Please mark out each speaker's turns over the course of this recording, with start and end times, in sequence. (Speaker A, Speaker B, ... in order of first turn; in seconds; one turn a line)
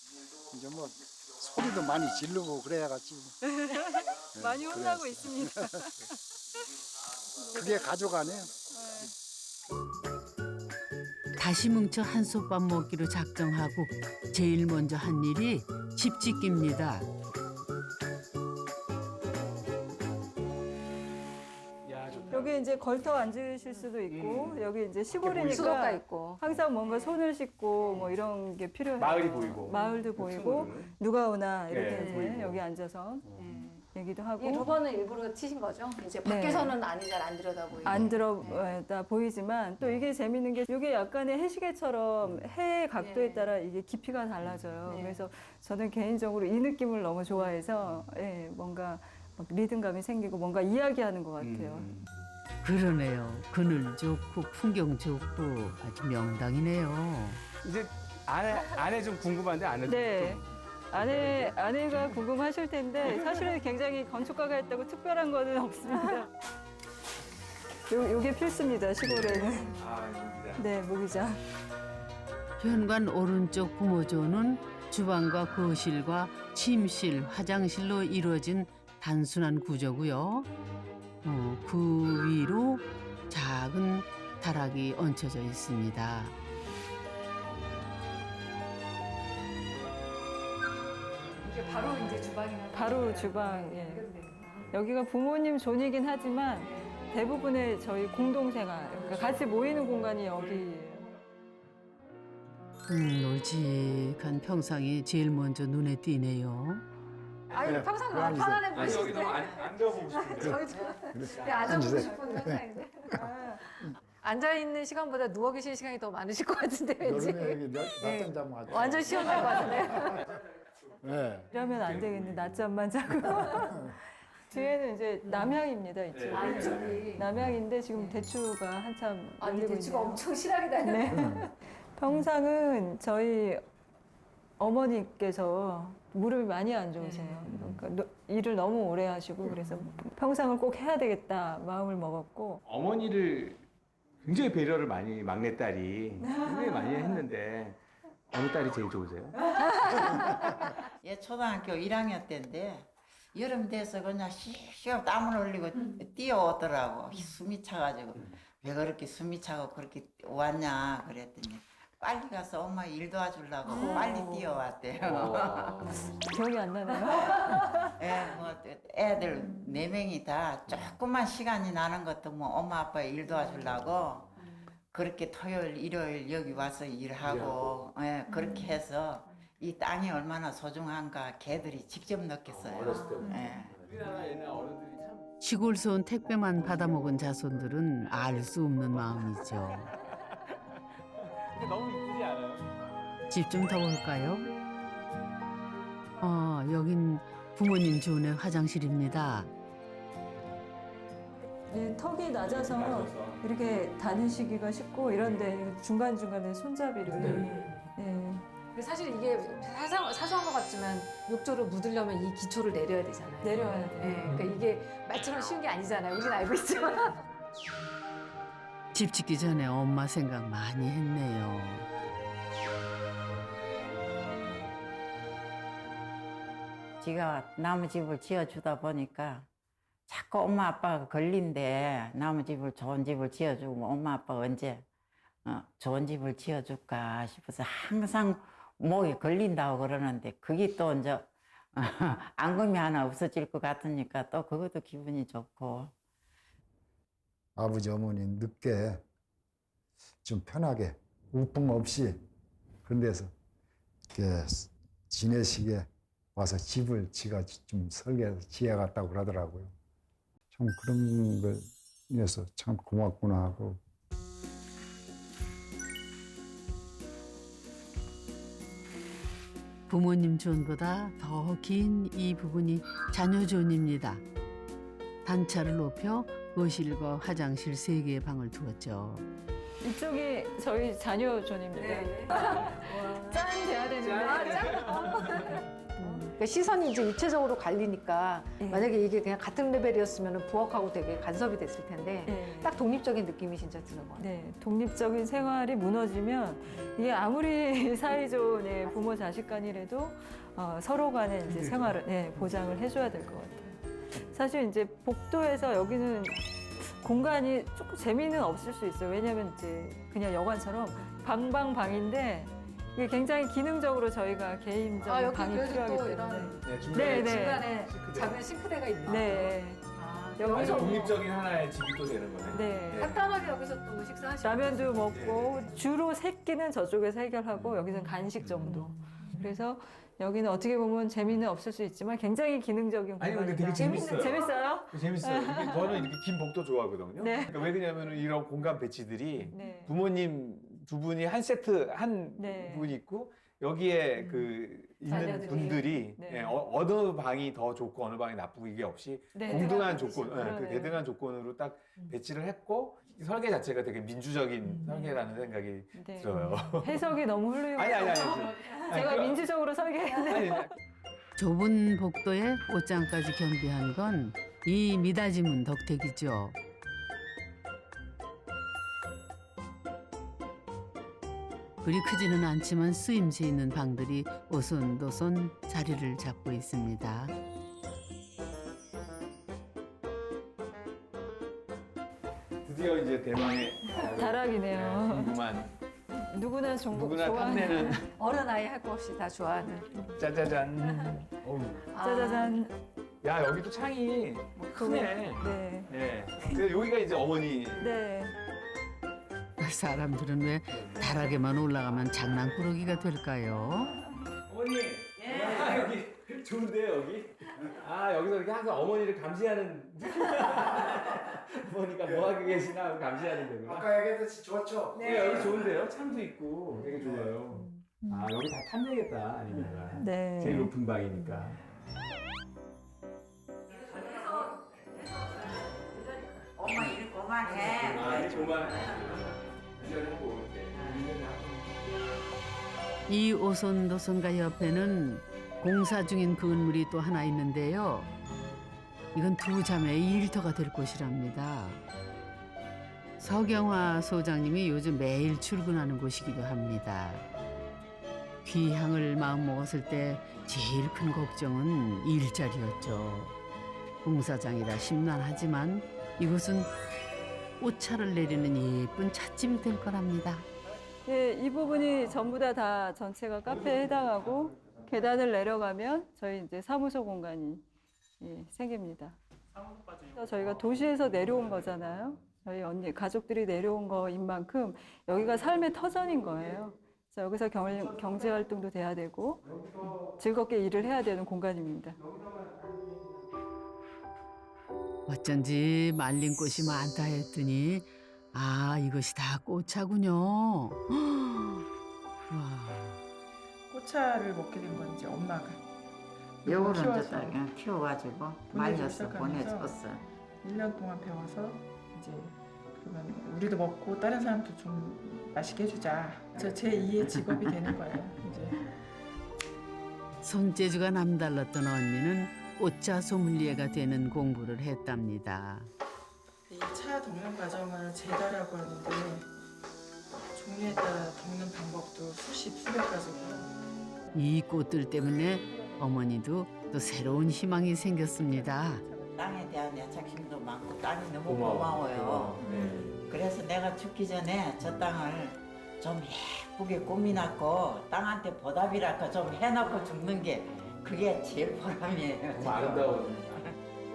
Speaker A: 0.5-3.3
Speaker B: 3.4-6.1
Speaker A: 4.3-5.8
Speaker A: 7.5-8.5
Speaker B: 8.7-9.1
Speaker C: 11.4-17.1
Speaker D: 21.8-22.6
Speaker B: 22.3-33.2
Speaker D: 24.1-25.8
Speaker E: 25.4-27.2
Speaker E: 27.8-28.1
Speaker D: 29.0-30.9
Speaker E: 29.7-30.1
Speaker D: 31.7-32.6
Speaker D: 33.2-33.5
Speaker E: 33.3-33.8
Speaker B: 33.9-34.7
Speaker E: 34.4-38.8
Speaker B: 36.2-36.8
Speaker B: 37.8-51.9
Speaker D: 39.8-40.0
Speaker E: 43.0-43.5
Speaker E: 44.9-45.2
Speaker D: 51.4-52.1
Speaker C: 52.6-57.4
Speaker D: 57.6-62.0
Speaker B: 59.9-66.3
Speaker B: 67.9-69.7
Speaker D: 69.0-70.6
Speaker B: 70.6-71.4
Speaker C: 72.6-80.5
Speaker C: 81.2-86.3
Speaker E: 91.4-94.7
Speaker B: 92.7-94.1
Speaker B: 94.7-101.1
Speaker E: 98.9-99.5
Speaker C: 102.9-106.8
Speaker E: 107.5-120.2
Speaker A: 107.6-109.1
Speaker D: 108.7-112.0
Speaker A: 110.3-113.2
Speaker B: 112.0-112.3
Speaker B: 113.1-113.6
Speaker A: 117.0-119.3
Speaker B: 118.7-119.8
Speaker A: 119.9-120.1
Speaker A: 121.0-121.5
Speaker B: 121.5-130.3
Speaker D: 121.8-122.5
Speaker E: 125.2-125.6
Speaker D: 126.1-127.2
Speaker E: 126.3-127.3
Speaker E: 129.4-131.1
Speaker B: 130.8-133.6
Speaker A: 131.1-131.4
Speaker B: 134.6-142.6
Speaker E: 137.0-137.6
Speaker E: 139.5-139.9
Speaker D: 142.7-143.6
Speaker D: 144.2-147.8
Speaker B: 146.2-147.0
Speaker D: 148.3-149.3
Speaker E: 149.6-150.5
Speaker B: 149.8-150.0
Speaker F: 151.0-166.1
Speaker B: 163.7-164.4
Speaker D: 165.0-166.0
Speaker B: 165.9-167.9
Speaker F: 167.8-174.3
Speaker F: 174.9-183.8
Speaker D: 177.2-177.7
Speaker D: 182.5-185.3
Speaker C: 185.4-189.9
Speaker D: 186.6-187.3
Speaker D: 188.0-189.6
Speaker D: 191.5-192.7
Speaker C: 193.3-194.5
Speaker C: 196.2-199.5
Speaker B: 201.7-208.4
Speaker D: 202.4-203.4
Speaker D: 207.1-207.6
Speaker E: 208.7-217.3
Speaker B: 213.4-214.4
Speaker C: 218.9-221.9
Speaker F: 227.0-229.4
Speaker F: 230.1-234.8
Speaker F: 235.4-245.9
Speaker A: 247.6-249.0
Speaker A: 250.2-252.2
Speaker A: 252.8-253.3
Speaker A: 254.1-259.7
Speaker A: 260.5-263.8
Speaker C: 269.9-274.2
Speaker C: 275.2-279.2
Speaker B: 279.8-286.3
Speaker E: 281.7-294.3
Speaker D: 284.0-285.6
Speaker B: 288.6-288.9
Speaker B: 292.2-292.8
Speaker B: 294.2-317.7
Speaker D: 301.5-301.9
Speaker E: 315.0-321.2
Speaker D: 316.6-318.4
Speaker B: 319.1-319.8
Speaker B: 320.4-321.1
Speaker D: 320.4-323.2
Speaker B: 322.5-323.2
Speaker E: 322.9-325.2
Speaker B: 324.4-336.1
Speaker D: 325.1-325.6
Speaker D: 328.4-328.8
Speaker D: 333.2-357.2
Speaker E: 333.7-334.5
Speaker B: 337.2-337.6
Speaker B: 339.5-339.9
Speaker B: 342.4-342.9
Speaker E: 344.2-344.5
Speaker E: 345.0-346.0
Speaker B: 345.1-346.6
Speaker B: 349.3-351.0
Speaker E: 349.4-350.5
Speaker B: 355.9-360.7
Speaker D: 357.7-359.5
Speaker D: 360.2-360.7
Speaker C: 361.4-366.6
Speaker C: 371.8-377.3
Speaker D: 382.6-385.7
Speaker B: 384.0-385.3
Speaker B: 386.3-388.1
Speaker D: 386.9-388.0
Speaker E: 387.5-390.3
Speaker D: 390.1-391.9
Speaker E: 390.8-391.2
Speaker E: 391.9-392.6
Speaker B: 392.0-392.7
Speaker D: 393.2-397.9
Speaker B: 394.7-395.9
Speaker B: 397.8-398.4
Speaker C: 399.6-403.9
Speaker D: 400.7-402.6
Speaker D: 404.5-413.9
Speaker A: 405.3-405.7
Speaker A: 412.0-412.3
Speaker A: 413.6-415.5
Speaker D: 414.9-421.6
Speaker E: 415.0-415.7
Speaker A: 417.0-417.3
Speaker B: 420.0-420.7
Speaker E: 423.7-424.5
Speaker D: 423.7-424.6
Speaker F: 426.6-428.9
Speaker D: 427.6-431.7
Speaker C: 433.1-438.1
Speaker C: 439.1-441.8
Speaker C: 443.2-447.2
Speaker C: 448.4-453.3
Speaker C: 454.0-456.7
Speaker C: 457.6-460.5
Speaker B: 461.1-467.6
Speaker B: 468.2-469.2
Speaker B: 470.1-482.0
Speaker D: 479.5-480.1
Speaker D: 482.0-483.2
Speaker C: 485.1-491.6
Speaker C: 492.3-493.0
Speaker G: 493.7-495.6
Speaker F: 496.4-500.0
Speaker G: 496.4-497.4
Speaker G: 498.5-499.7
Speaker G: 500.4-508.6
Speaker F: 506.4-508.0
Speaker C: 510.2-515.7
Speaker G: 516.5-519.3
Speaker G: 520.3-523.5
Speaker C: 524.1-528.8
Speaker G: 528.2-529.1
Speaker F: 529.1-543.1
Speaker D: 531.2-533.0
Speaker D: 542.4-543.5